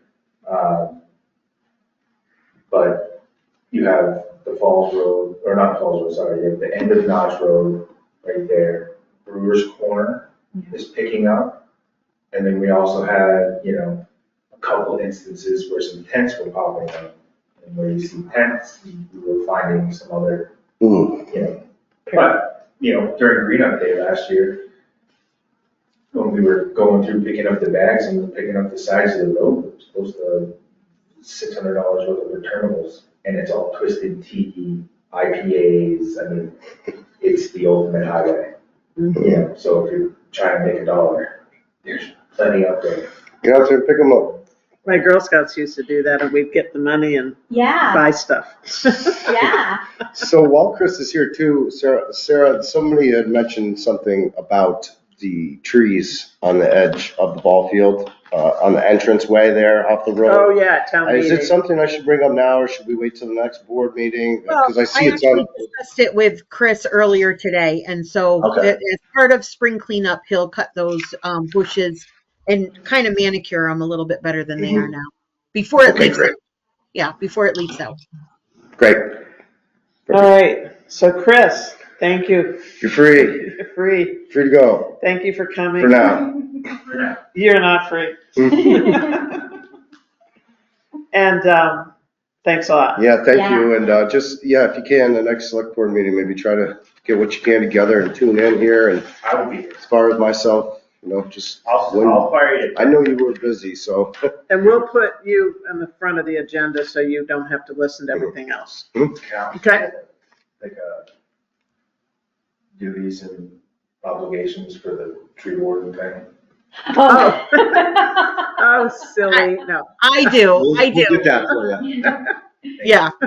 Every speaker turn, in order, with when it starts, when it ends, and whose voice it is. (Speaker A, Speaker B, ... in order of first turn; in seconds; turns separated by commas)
Speaker A: 0.5-1.0, Speaker A: 2.7-3.2, Speaker A: 3.7-11.6, Speaker A: 12.3-14.0, Speaker A: 14.5-20.5, Speaker B: 20.8-21.3, Speaker A: 21.3-24.6, Speaker A: 26.1-30.6, Speaker A: 31.2-36.5, Speaker A: 37.2-38.5, Speaker A: 39.2-43.1, Speaker B: 43.4-44.4, Speaker C: 44.9-49.5, Speaker D: 47.5-48.1, Speaker D: 49.2-49.8, Speaker B: 50.1-60.5, Speaker C: 60.2-61.6, Speaker B: 61.0-65.5, Speaker E: 64.5-76.4, Speaker B: 68.4-68.7, Speaker B: 74.6-74.9, Speaker B: 75.8-76.3, Speaker E: 76.9-78.0, Speaker B: 78.8-79.2, Speaker C: 80.1-84.2, Speaker B: 82.8-83.4, Speaker B: 84.3-85.0, Speaker C: 85.0-86.2, Speaker B: 85.8-86.3, Speaker A: 86.8-87.3, Speaker C: 87.3-89.5, Speaker B: 88.4-88.7, Speaker C: 91.1-91.9, Speaker C: 92.4-93.0, Speaker B: 93.0-99.1, Speaker D: 93.3-93.7, Speaker A: 99.2-99.8, Speaker B: 99.8-104.3, Speaker A: 101.6-103.1, Speaker C: 104.5-108.9, Speaker A: 109.1-110.1, Speaker C: 109.5-109.8, Speaker A: 110.6-111.1, Speaker A: 112.8-116.3, Speaker D: 116.9-118.6, Speaker C: 117.1-118.0, Speaker C: 118.6-120.3, Speaker E: 120.0-121.5, Speaker B: 120.5-122.0, Speaker D: 121.8-122.2, Speaker E: 122.8-123.1